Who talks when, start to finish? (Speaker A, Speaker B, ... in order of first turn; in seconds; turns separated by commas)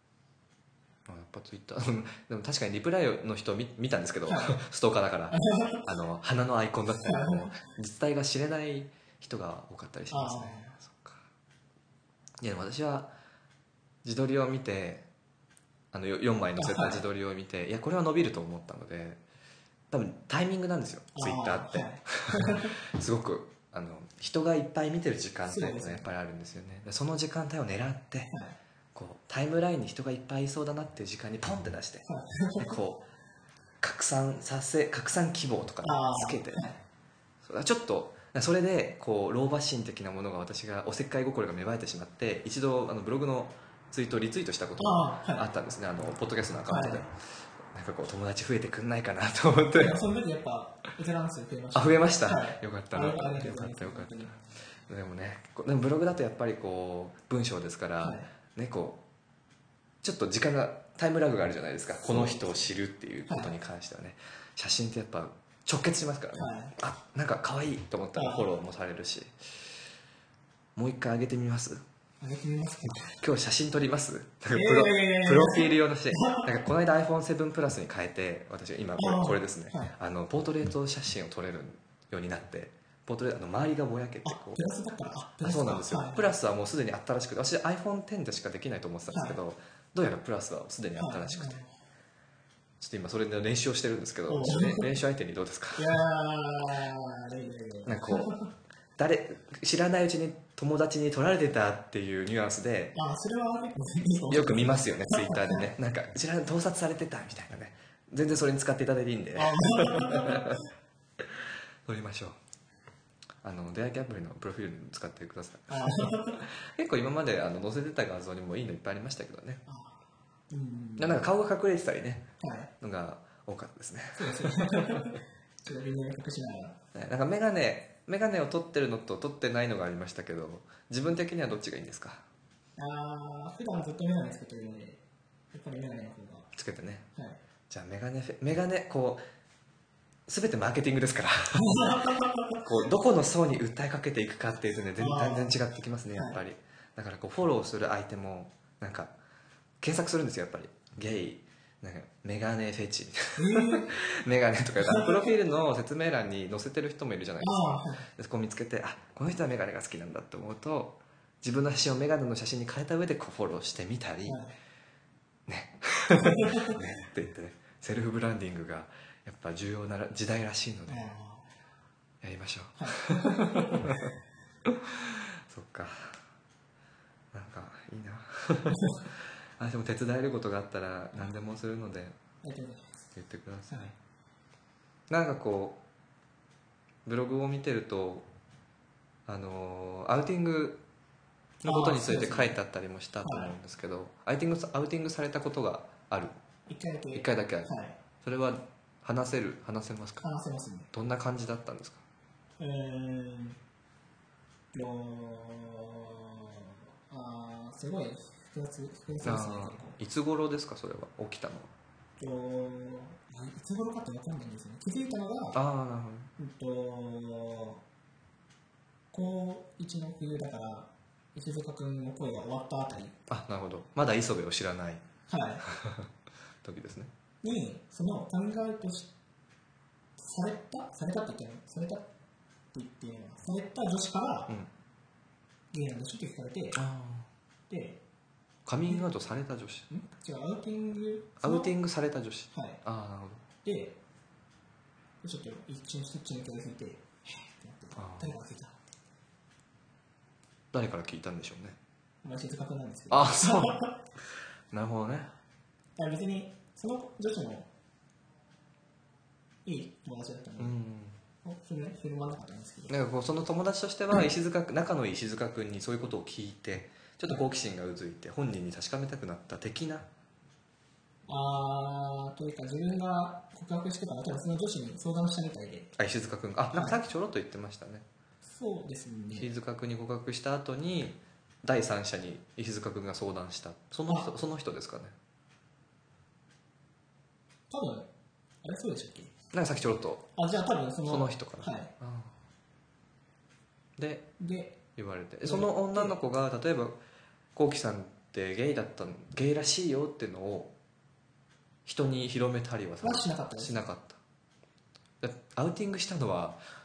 Speaker A: 1.1-11.2, Speaker B: 4.3-4.6, Speaker B: 5.3-5.9, Speaker B: 7.0-7.6, Speaker B: 10.1-10.8, Speaker A: 12.4-13.1, Speaker A: 14.0-15.1, Speaker A: 15.9-19.2, Speaker B: 16.6-17.0, Speaker A: 19.9-28.3, Speaker B: 21.1-22.8, Speaker B: 25.5-26.1, Speaker B: 28.3-28.6, Speaker A: 28.9-32.1, Speaker B: 32.0-32.8, Speaker A: 32.6-33.0, Speaker A: 33.8-36.6, Speaker B: 35.8-36.8, Speaker A: 37.4-47.1, Speaker B: 44.8-45.5, Speaker B: 46.7-47.1, Speaker A: 47.6-50.0, Speaker B: 49.8-54.3, Speaker A: 51.7-59.0, Speaker B: 58.0-58.3, Speaker A: 60.0-69.7, Speaker B: 62.0-62.7, Speaker B: 63.3-63.5, Speaker B: 66.3-66.7, Speaker B: 68.2-68.5, Speaker A: 70.8-71.8, Speaker B: 72.2-73.2, Speaker A: 73.1-84.7, Speaker B: 74.5-76.5, Speaker B: 79.0-79.9, Speaker B: 84.2-86.3, Speaker A: 85.4-91.6, Speaker B: 89.1-89.4, Speaker B: 91.0-91.8, Speaker A: 92.8-96.0, Speaker B: 94.3-94.9, Speaker B: 95.8-98.5, Speaker A: 97.9-98.4, Speaker A: 99.0-103.0, Speaker B: 102.9-105.7, Speaker A: 104.3-110.6, Speaker B: 109.3-110.7, Speaker A: 111.2-112.4, Speaker A: 113.4-119.6, Speaker B: 115.7-116.4, Speaker B: 119.7-121.2, Speaker A: 121.0-122.3, Speaker B: 122.4-122.7, Speaker A: 122.8-125.1, Speaker B: 124.2-126.8, Speaker A: 126.9-132.2, Speaker B: 132.8-136.5, Speaker A: 136.6-137.1, Speaker B: 137.1-137.4, Speaker A: 137.7-139.2, Speaker A: 140.3-149.1, Speaker B: 141.6-142.6, Speaker B: 145.0-145.6, Speaker A: 149.8-164.4, Speaker B: 153.4-153.9, Speaker B: 154.8-155.2, Speaker B: 157.4-158.1, Speaker B: 164.3-164.6, Speaker A: 165.5-171.1, Speaker B: 166.1-166.8, Speaker B: 170.9-171.5, Speaker A: 172.2-174.1, Speaker B: 172.8-174.0, Speaker A: 174.7-176.2, Speaker A: 177.3-182.2, Speaker B: 182.4-183.1, Speaker A: 183.2-183.9, Speaker A: 185.1-185.8, Speaker A: 187.1-188.3, Speaker A: 189.3-190.8, Speaker A: 191.6-196.4, Speaker B: 191.7-192.6, Speaker B: 193.2-193.6, Speaker B: 196.7-198.0, Speaker A: 197.2-197.7, Speaker A: 198.2-200.3, Speaker B: 200.2-200.9, Speaker A: 200.9-202.0, Speaker B: 202.6-203.6, Speaker B: 204.7-210.0, Speaker A: 209.2-211.7, Speaker B: 212.2-215.6, Speaker A: 215.5-216.3, Speaker B: 216.4-217.8, Speaker B: 219.1-223.2, Speaker A: 223.3-225.0, Speaker B: 225.3-225.6, Speaker A: 225.7-226.1, Speaker A: 226.6-227.1, Speaker B: 227.4-229.1, Speaker B: 230.2-232.1, Speaker B: 232.7-234.5, Speaker B: 235.7-236.8, Speaker A: 236.8-237.3, Speaker B: 237.7-238.0, Speaker A: 238.7-239.9, Speaker B: 239.9-241.7, Speaker A: 241.4-243.4, Speaker B: 242.5-242.8, Speaker B: 243.6-244.0, Speaker B: 245.2-248.8, Speaker A: 248.0-248.4, Speaker A: 250.7-251.8, Speaker B: 252.2-254.0, Speaker A: 253.1-253.9, Speaker A: 254.7-255.3, Speaker B: 256.0-257.7, Speaker B: 259.6-260.8, Speaker A: 260.6-261.2, Speaker B: 261.4-262.9, Speaker A: 262.9-270.1, Speaker B: 271.3-275.9, Speaker A: 276.0-278.1, Speaker B: 276.7-277.0, Speaker B: 278.4-279.5, Speaker A: 279.4-285.1, Speaker B: 287.7-288.1, Speaker B: 288.6-289.3, Speaker A: 289.5-290.3, Speaker B: 290.4-291.9, Speaker A: 291.1-292.4, Speaker A: 294.0-294.3, Speaker B: 294.4-294.8, Speaker A: 295.0-297.0, Speaker B: 295.4-296.2, Speaker A: 297.6-300.7, Speaker A: 301.9-304.2, Speaker B: 303.0-303.8, Speaker A: 305.2-306.6